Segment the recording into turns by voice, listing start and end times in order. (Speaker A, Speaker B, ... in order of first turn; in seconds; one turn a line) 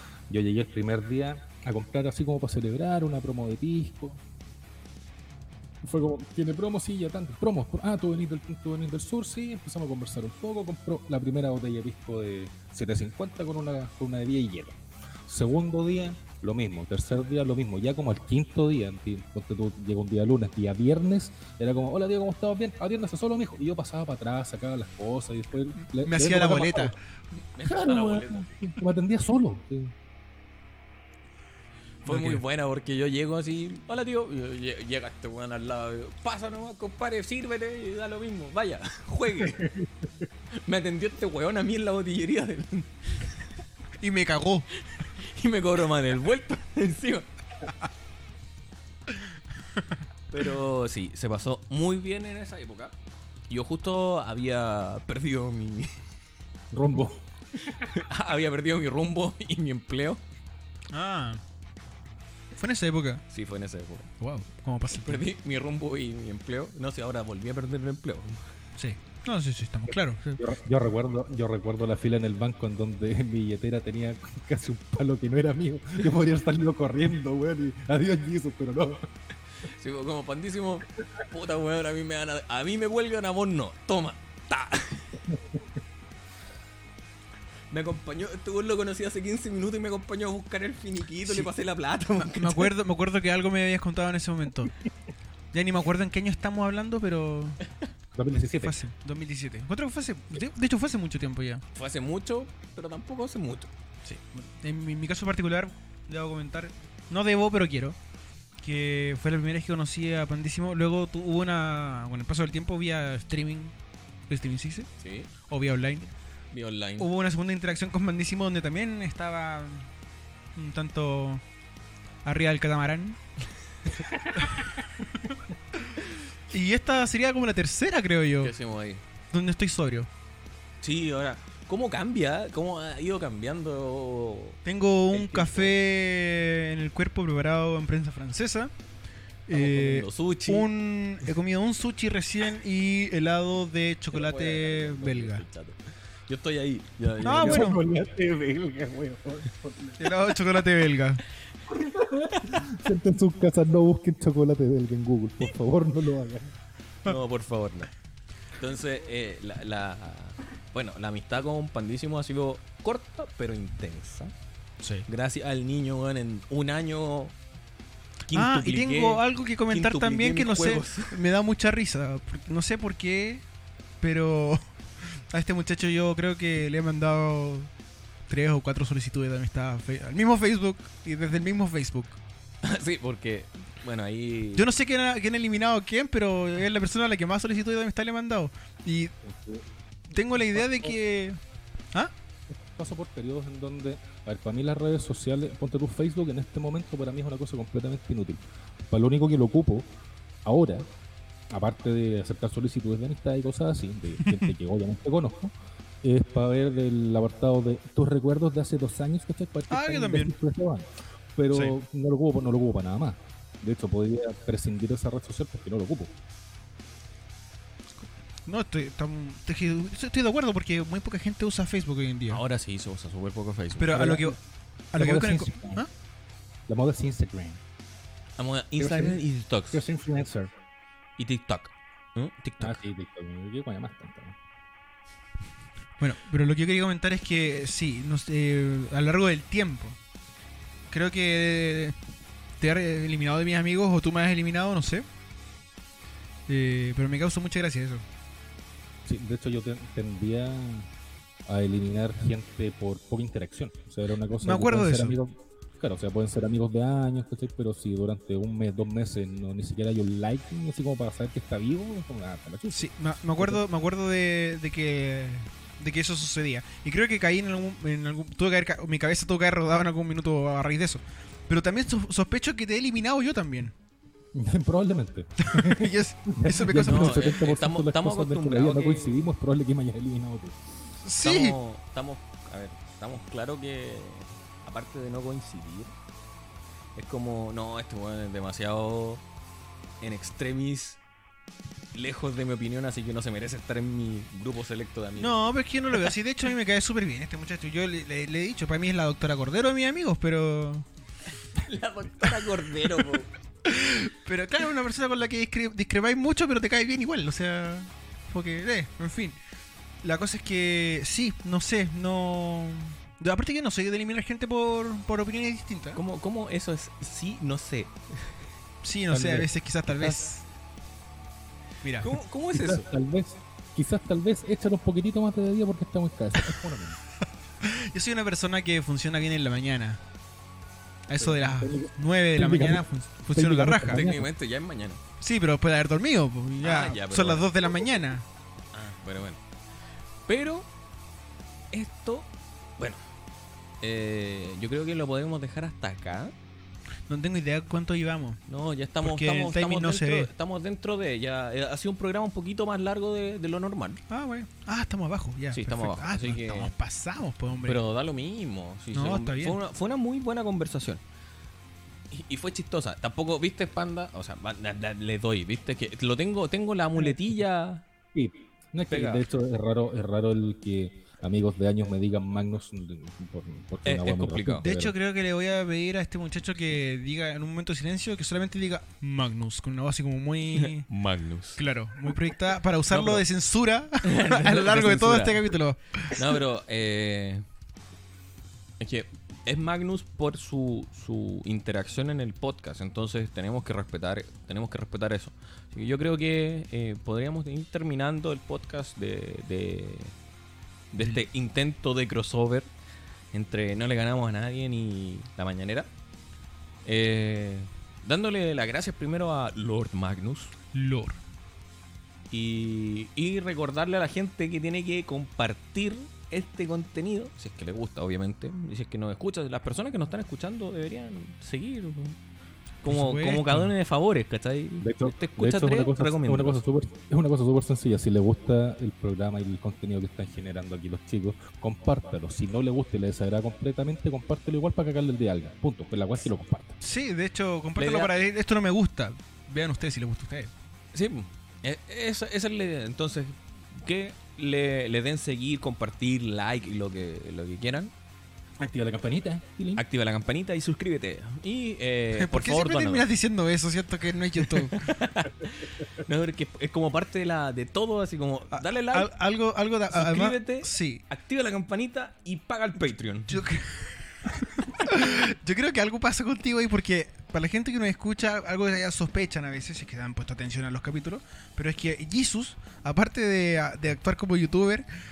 Speaker A: 0.3-4.2
Speaker A: 5.8-26.9
Speaker B: 25.9-26.9
Speaker C: 27.4-28.5
Speaker A: 27.6-29.9
Speaker C: 32.0-39.7
Speaker B: 32.1-32.4
Speaker A: 39.5-39.9
Speaker C: 40.6-43.3
Speaker B: 44.0-44.7
Speaker C: 45.1-47.3
Speaker C: 50.3-52.9
Speaker C: 53.5-55.9
Speaker A: 56.7-57.2
Speaker C: 57.8-60.2
Speaker B: 60.9-61.4
Speaker B: 62.6-63.2
Speaker C: 63.3-64.1
Speaker B: 64.2-65.2
Speaker C: 64.9-68.4
Speaker B: 68.8-70.4
Speaker A: 70.4-79.1
Speaker C: 79.7-85.2
Speaker A: 85.3-85.6
Speaker C: 87.7-92.7
Speaker B: 92.2-94.7
Speaker B: 95.5-97.6
Speaker A: 98.2-98.8
Speaker B: 98.4-101.6
Speaker C: 101.8-103.7
Speaker B: 104.0-108.0
Speaker B: 108.6-113.7
Speaker B: 114.3-116.1
Speaker C: 115.0-115.3
Speaker C: 116.5-117.1
Speaker B: 117.0-119.9
Speaker B: 120.6-121.4
Speaker B: 122.2-123.2
Speaker B: 126.5-128.5
Speaker C: 128.4-129.0
Speaker B: 129.3-130.1
Speaker C: 130.8-134.6
Speaker B: 134.7-138.7
Speaker C: 135.1-135.8
Speaker B: 139.5-145.4
Speaker C: 139.5-140.7
Speaker C: 144.1-147.8
Speaker B: 147.2-147.8
Speaker A: 147.3-150.2
Speaker B: 150.0-151.2
Speaker A: 151.7-156.6
Speaker C: 157.1-157.9
Speaker C: 158.6-164.3
Speaker B: 164.8-165.1
Speaker C: 165.1-167.3
Speaker C: 168.3-171.2
Speaker B: 168.3-173.4
Speaker B: 174.0-174.6
Speaker B: 175.3-177.7
Speaker B: 178.3-182.2
Speaker C: 182.6-184.7
Speaker B: 184.6-189.1
Speaker A: 189.2-189.6
Speaker B: 190.1-191.4
Speaker A: 190.5-190.9
Speaker A: 192.5-199.9
Speaker A: 200.4-200.9
Speaker A: 201.5-216.2
Speaker B: 209.7-210.3
Speaker B: 218.0-222.4
Speaker C: 222.3-224.1
Speaker B: 223.8-224.4
Speaker A: 223.9-224.4
Speaker B: 224.9-225.9
Speaker A: 225.0-225.8
Speaker A: 226.7-227.6
Speaker C: 228.4-229.8
Speaker A: 228.8-230.5
Speaker C: 231.2-232.8
Speaker A: 232.6-234.4
Speaker B: 236.0-240.0
Speaker B: 240.9-241.9
Speaker B: 242.6-245.1
Speaker B: 246.5-248.0
Speaker A: 249.1-250.9
Speaker A: 251.5-263.6
Speaker B: 254.4-255.2
Speaker B: 262.7-273.7
Speaker A: 274.3-280.6
Speaker B: 275.4-277.4
Speaker C: 276.8-279.2
Speaker B: 281.0-281.6
Speaker C: 281.2-285.9
Speaker C: 287.0-289.2
Speaker C: 290.0-291.0
Speaker C: 291.9-295.4
Speaker B: 295.2-300.9
Speaker C: 301.6-303.3
Speaker B: 303.7-309.4
Speaker B: 310.0-316.0
Speaker C: 315.9-318.4
Speaker B: 318.8-320.4
Speaker A: 319.1-320.2
Speaker B: 321.8-322.1
Speaker C: 322.0-322.9
Speaker A: 322.5-327.0
Speaker B: 327.6-330.0
Speaker B: 331.1-334.1
Speaker A: 331.2-334.3
Speaker C: 333.9-335.0
Speaker B: 335.2-338.3
Speaker C: 336.6-337.5
Speaker C: 338.7-339.4
Speaker C: 340.3-340.7
Speaker C: 341.7-343.0
Speaker C: 343.8-346.3
Speaker B: 347.1-348.4
Speaker C: 348.5-354.0
Speaker B: 349.0-350.3
Speaker B: 354.1-357.8
Speaker C: 355.5-356.7
Speaker C: 357.7-361.0
Speaker B: 358.9-359.6
Speaker C: 362.1-367.9
Speaker A: 368.1-374.9
Speaker C: 368.9-369.3
Speaker C: 373.9-374.7
Speaker B: 374.6-380.9
Speaker C: 380.6-381.6
Speaker B: 381.6-386.3
Speaker C: 382.9-383.2
Speaker C: 384.0-385.5
Speaker C: 386.1-387.4
Speaker C: 388.8-400.1
Speaker C: 400.9-402.7
Speaker C: 403.3-405.9
Speaker C: 406.9-410.6
Speaker B: 410.7-411.2
Speaker C: 412.3-422.2
Speaker C: 422.8-426.6
Speaker B: 422.9-423.7
Speaker A: 424.8-436.8
Speaker B: 436.8-440.5
Speaker C: 437.8-438.1
Speaker C: 440.9-447.9
Speaker A: 448.6-449.8
Speaker C: 449.8-453.1
Speaker B: 452.1-455.0
Speaker C: 454.4-459.1
Speaker B: 458.5-461.0
Speaker C: 459.9-463.4
Speaker B: 463.3-463.9
Speaker B: 464.6-474.9